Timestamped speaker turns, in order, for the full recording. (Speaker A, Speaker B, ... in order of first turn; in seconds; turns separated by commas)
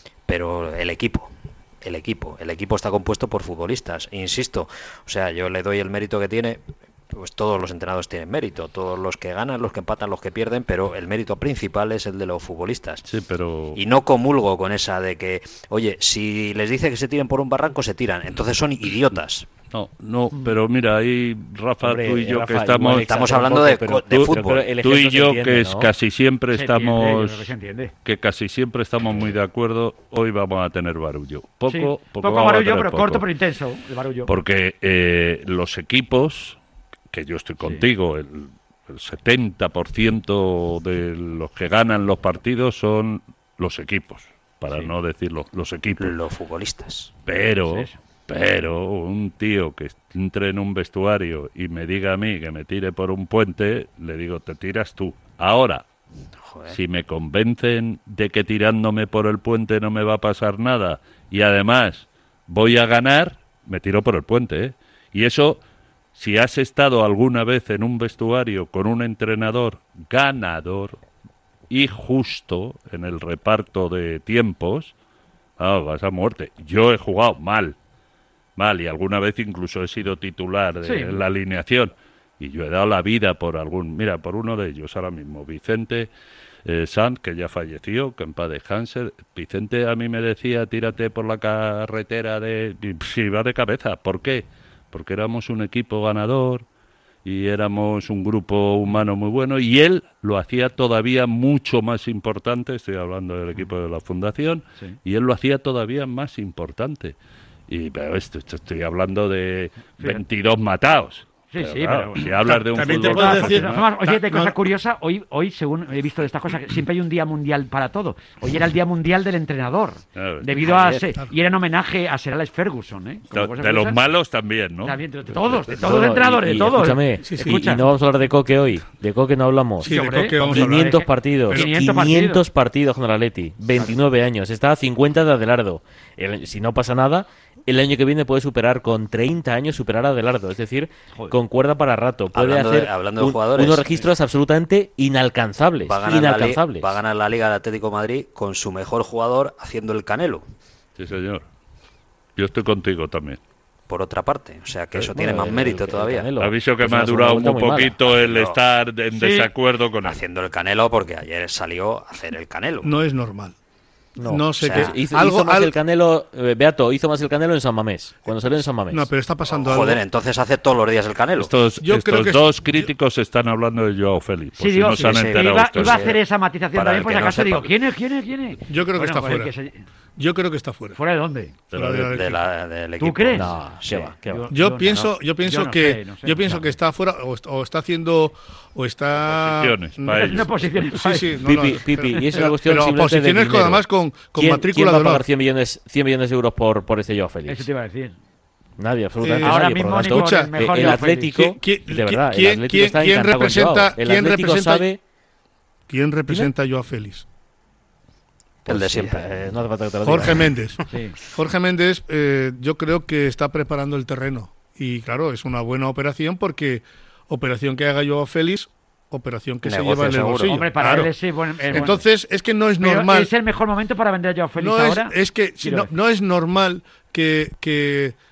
Speaker A: 0.2-13.0, Speaker B: 13.0-13.8, Speaker A: 13.7-19.5, Speaker B: 19.7-23.1, Speaker C: 21.8-25.9, Speaker A: 23.1-24.6, Speaker B: 24.1-27.5, Speaker D: 26.5-27.9, Speaker B: 28.0-33.2, Speaker D: 31.7-34.3, Speaker B: 34.3-36.6, Speaker B: 37.1-46.2, Speaker A: 46.0-47.1, Speaker B: 47.2-55.8, Speaker D: 47.7-47.9, Speaker A: 56.4-56.8, Speaker B: 56.7-65.6, Speaker B: 66.1-71.0, Speaker B: 71.7-74.9, Speaker B: 75.6-77.8, Speaker B: 78.5-86.1, Speaker D: 80.8-81.2, Speaker B: 86.6-96.6, Speaker B: 97.2-107.2, Speaker B: 107.7-113.8, Speaker D: 111.5-124.0, Speaker E: 112.4-114.6, Speaker B: 120.1-120.5, Speaker A: 120.6-121.0, Speaker B: 123.3-126.0, Speaker D: 124.8-127.8, Speaker C: 125.8-147.0, Speaker E: 127.2-127.7, Speaker E: 129.8-131.7, Speaker D: 129.8-132.4, Speaker A: 142.3-144.1, Speaker A: 145.8-150.4, Speaker B: 151.0-151.4, Speaker B: 152.3-153.4, Speaker A: 153.9-156.3, Speaker C: 155.1-157.9, Speaker B: 156.4-160.2, Speaker A: 158.0-158.6, Speaker D: 159.1-159.5, Speaker A: 160.0-162.9, Speaker E: 162.8-163.6, Speaker C: 164.2-169.1, Speaker E: 164.2-165.7, Speaker A: 164.6-165.0, Speaker E: 168.3-170.0, Speaker A: 169.5-171.5, Speaker B: 171.4-176.2, Speaker E: 171.8-172.9, Speaker D: 174.6-179.8, Speaker A: 175.0-176.2, Speaker A: 176.7-177.7, Speaker E: 178.7-179.5, Speaker E: 180.2-181.0, Speaker D: 180.9-181.5, Speaker B: 181.7-182.2, Speaker E: 181.7-182.4, Speaker A: 182.1-184.2, Speaker D: 183.0-183.5, Speaker C: 183.3-184.5, Speaker D: 184.3-186.7, Speaker E: 184.5-195.2, Speaker B: 189.3-190.6, Speaker D: 190.1-191.4, Speaker C: 191.4-197.7, Speaker D: 197.5-198.1, Speaker C: 198.8-205.0, Speaker E: 199.2-204.9, Speaker D: 199.4-201.5, Speaker E: 205.9-207.2, Speaker C: 208.6-210.5, Speaker A: 208.7-209.4, Speaker E: 210.0-221.1, Speaker D: 210.9-211.2, Speaker A: 219.6-220.6, Speaker D: 220.4-222.0, Speaker E: 221.7-223.3, Speaker D: 222.8-225.9, Speaker E: 224.6-228.2